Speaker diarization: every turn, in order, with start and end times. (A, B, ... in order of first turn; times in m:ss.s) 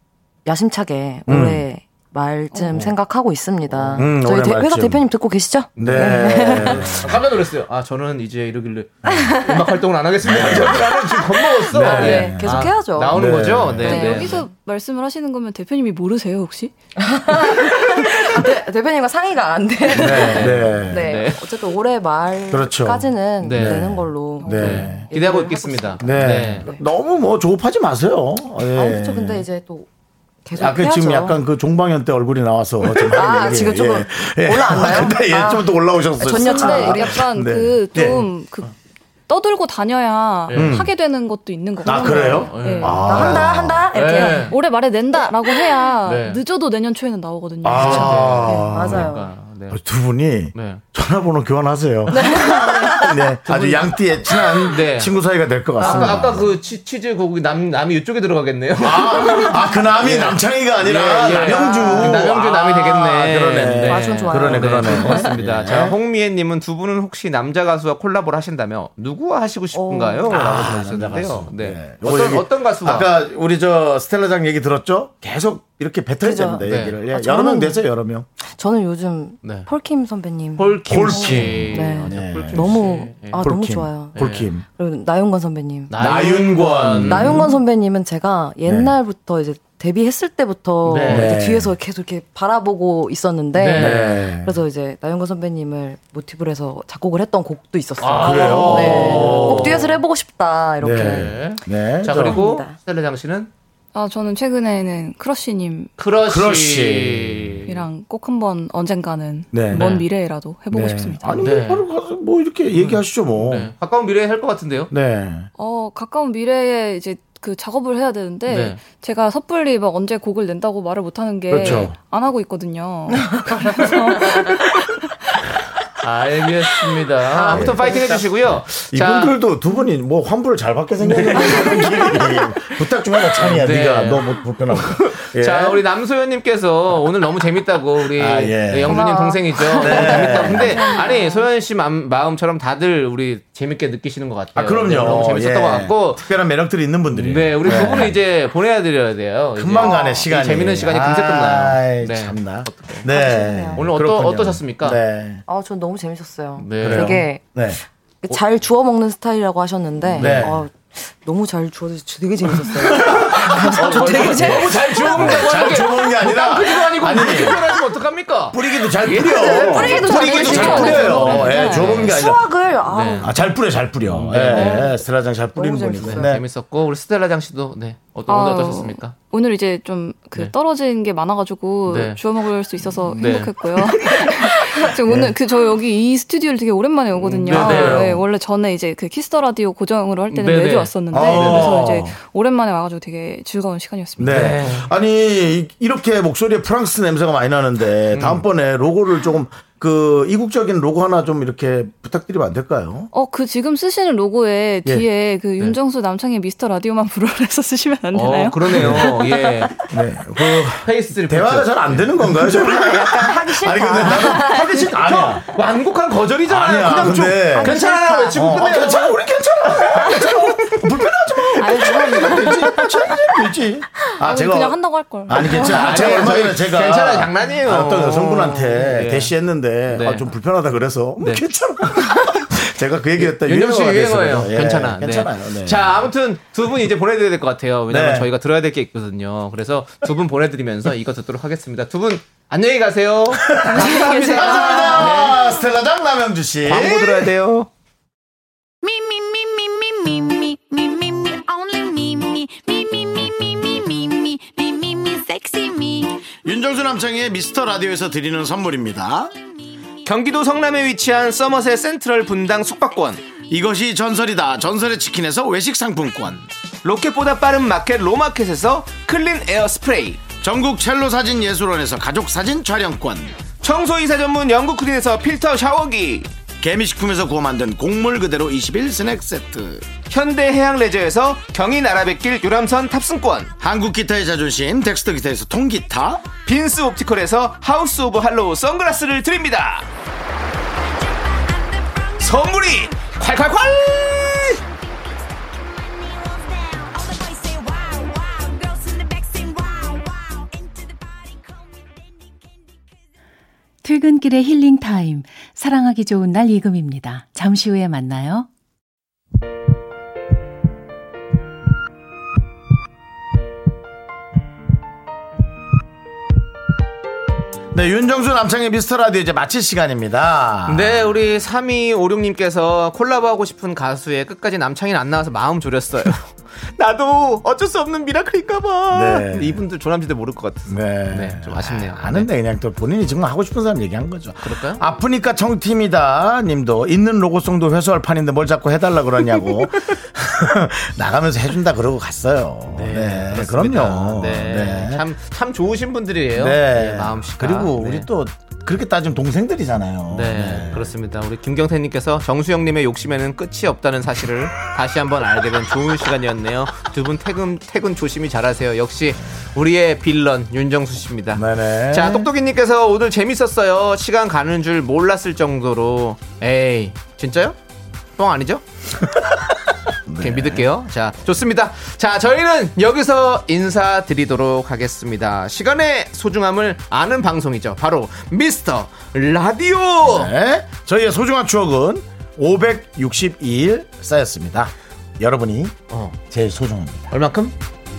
0:00.4-0:07.0 A
0:01.3-0:01.6 B
0:02.5-0:02.8 C
0:03.7-0:04.0 D
0:04.0-0:05.0 B
0:05.7-0:14.5 D
0:05.8-0:07.2 B
0:09.0-0:09.8 A
0:10.2-0:12.5 B
0:11.3-0:13.2 A
0:13.1-0:14.0 B
0:13.8-0:16.7 C
0:13.9-0:14.3 A
0:17.0-0:26.8 A
0:19.9-0:21.1 B
0:20.0-0:21.4 D
0:22.5-0:25.0 B
0:23.4-0:23.8 D
0:24.4-0:25.0 C
0:24.5-0:26.7 D
0:26.0-0:29.4 B
0:28.7-0:29.9 A
0:30.4-0:31.4 A
0:30.5-0:38.3 B
0:33.0-0:37.2 A
0:36.2-0:38.7 C
0:39.3-0:43.2 C
0:40.5-0:40.8 D
0:40.5-0:40.9 B
0:41.8-0:44.5 A
0:41.8-0:43.9 B
0:42.1-0:44.6 D
0:44.1-0:48.6 C
0:45.4-0:45.8 A
0:46.0-0:46.4 D
0:47.6-0:49.1 B
0:47.7-0:49.8 D
0:48.4-0:49.3 A
0:49.7-0:56.5 B
0:50.5-0:50.8 D
0:52.1-0:53.2 A
0:52.3-0:53.0 C
0:53.4-0:55.2 D
0:55.8-1:13.1 D
0:55.8-0:56.4 A
0:58.8-1:06.0 B
1:01.2-1:02.3 A
1:03.8-1:05.4 A
1:09.7-1:10.6 A
1:10.3-1:18.2 B
1:16.2-1:17.8 A
1:16.6-1:17.0 D
1:18.5-1:41.4 A
1:19.4-1:19.7 D
1:20.6-1:23.5 D
1:20.8-1:22.9 B
1:23.4-1:24.6 B
1:24.1-1:24.5 D
1:25.9-1:27.5 D
1:26.0-1:27.5 B
1:28.6-1:28.9 B
1:30.8-1:31.3 D
1:31.0-1:31.8 B
1:33.5-1:34.3 D
1:33.7-1:34.6 B
1:38.0-1:40.0 D
1:38.2-1:39.9 B
1:40.8-1:42.4 B
1:40.9-1:43.5 D
1:42.1-1:42.8 A
1:43.9-1:45.9 C
1:46.0-1:47.8 D
1:46.2-1:47.6 B
1:47.6-1:51.6 C
1:49.5-1:50.0 B
1:49.7-1:50.1 D
1:50.7-1:53.7 B
1:51.4-1:51.8 D
1:52.7-1:54.9 D
1:54.9-1:55.5 B
1:55.6-2:04.9 C
1:58.5-1:58.8 D
2:01.5-2:02.0 B
2:01.6-2:01.9 D
2:06.0-2:09.4 D
2:07.3-2:08.2 A
2:07.5-2:15.8 B
2:11.0-2:12.2 D
2:11.3-2:12.3 A
2:13.4-2:26.2 D
2:18.1-2:19.1 B
2:18.8-2:21.3 A
2:19.8-2:20.8 B
2:20.7-2:21.2 C
2:24.5-2:28.2 B
2:27.1-2:33.1 D
2:29.5-2:35.4 B
2:29.8-2:30.2 A
2:33.1-2:33.8 A
2:33.7-2:35.0 D
2:35.5-2:37.5 A
2:36.6-2:37.2 D
2:36.8-2:37.8 B
2:38.2-2:45.8 A
2:40.1-2:40.6 D
2:40.2-2:40.6 B
2:42.6-2:47.6 B
2:43.1-2:52.2 D
2:48.5-2:52.5 B
2:49.2-2:53.4 A
2:49.7-2:51.8 C
2:52.9-2:53.3 D
2:53.2-2:56.4 B
2:54.1-2:54.8 D
2:54.3-2:55.0 A
2:55.6-2:56.4 A
2:56.0-2:59.1 D
2:58.3-3:14.5 C
3:01.8-3:02.2 D
3:03.1-3:04.2 D
3:05.0-3:05.3 B
3:07.2-3:08.1 D
3:07.5-3:08.2 B
3:10.3-3:11.8 D
3:11.1-3:12.2 B
3:14.2-3:23.1 B
3:14.3-3:14.9 D
3:18.1-3:18.4 D
3:23.1-3:28.7 C
3:28.1-3:29.7 D
3:28.8-3:29.1 B
3:29.9-3:35.4 B
3:30.8-3:32.4 D
3:32.4-3:34.7 A
3:34.2-3:35.4 C
3:35.5-3:39.2 D
3:36.5-3:37.8 B
3:37.6-3:38.4 A
3:37.6-3:38.1 C
3:38.3-3:56.0 B
3:41.6-3:43.1 C
3:44.2-3:45.8 C
3:45.5-3:49.3 D
3:49.9-3:50.3 D
3:51.2-3:52.1 D
3:53.2-4:05.4 D
3:57.9-3:58.3 B
4:03.4-4:07.3 B
4:03.7-4:05.3 A
4:06.6-4:07.7 D
4:16.4-4:19.3 B
4:20.0-4:23.3 D
4:23.5-4:26.5 B
4:26.8-4:30.2 D
4:30.4-4:33.4 B
4:33.6-4:36.3 D
4:36.6-4:39.9 B
4:40.1-4:43.5 D
4:43.6-4:46.2 B
4:46.4-4:49.9 D
4:52.1-4:54.6 D
5:03.8-5:08.5 E
5:17.7-5:21.1 B
5:20.6-5:32.3 D
5:28.9-5:29.6 B
5:30.7-5:45.0 B
5:34.4-5:34.8 D
5:42.7-5:48.1 D
5:46.3-5:50.9 B
5:50.1-6:07.6 D
6:01.3-6:02.3 B
6:08.2-6:08.6 D
6:09.0-6:09.4 B
6:10.1-6:10.7 B
6:10.2-6:20.3 D
6:20.0-6:27.1 B
6:25.9-6:26.2 D
6:27.1-6:27.5 D